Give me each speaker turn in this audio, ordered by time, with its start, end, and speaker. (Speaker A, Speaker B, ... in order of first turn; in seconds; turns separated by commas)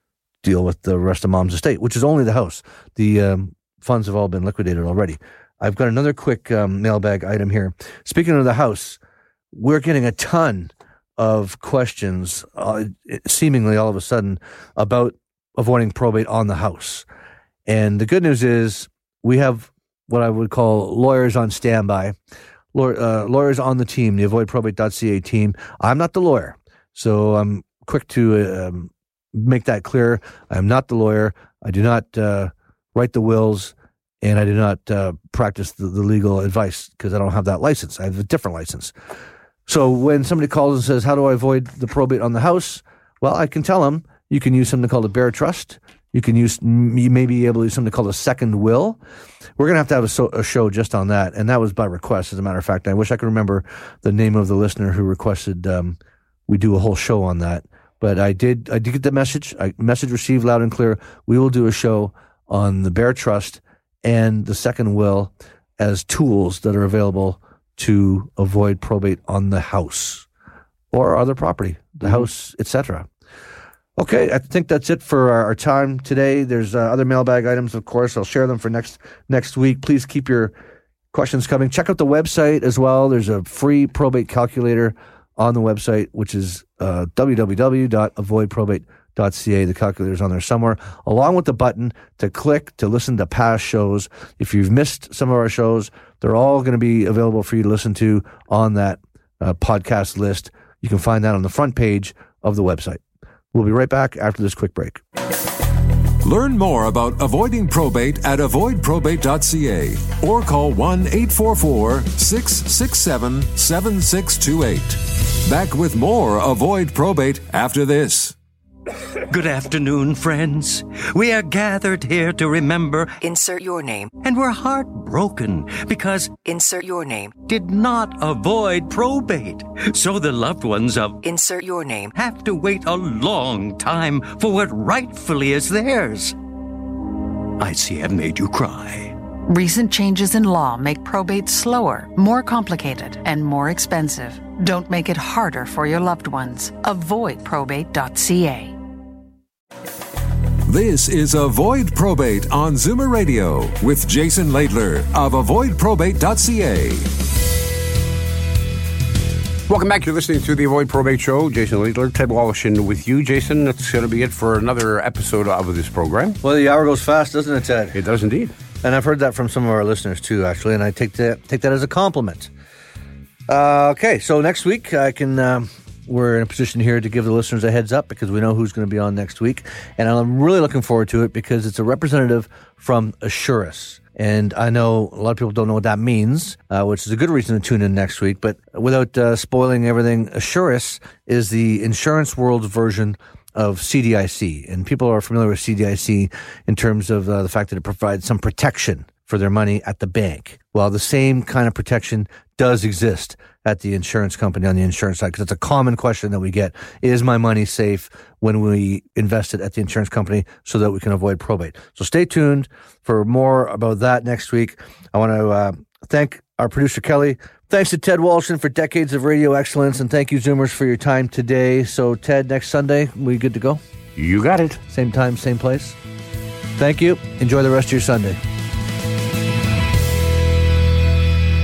Speaker A: 0.4-9.0, Speaker A: 9.5-17.1, Speaker A: 17.6-22.1, Speaker A: 22.7-38.9, Speaker A: 39.7-49.0, Speaker A: 49.6-70.3, Speaker A: 70.9-73.1, Speaker A: 74.0-80.5, Speaker A: 81.1-103.0, Speaker A: 103.5-105.0, Speaker B: 106.2-118.3, Speaker C: 119.3-123.2, Speaker D: 123.2-124.1, Speaker C: 124.2-126.4, Speaker D: 126.4-127.3, Speaker C: 127.4-131.2, Speaker D: 131.2-132.1, Speaker C: 132.1-136.3, Speaker C: 137.6-139.2, Speaker E: 139.4-148.8, Speaker B: 150.7-157.1, Speaker F: 159.7-166.4, Speaker A: 166.4-168.0, Speaker F: 167.9-168.5, Speaker A: 168.8-172.5, Speaker A: 173.5-223.8, Speaker F: 224.2-224.8, Speaker A: 224.9-226.0, Speaker A: 226.8-228.4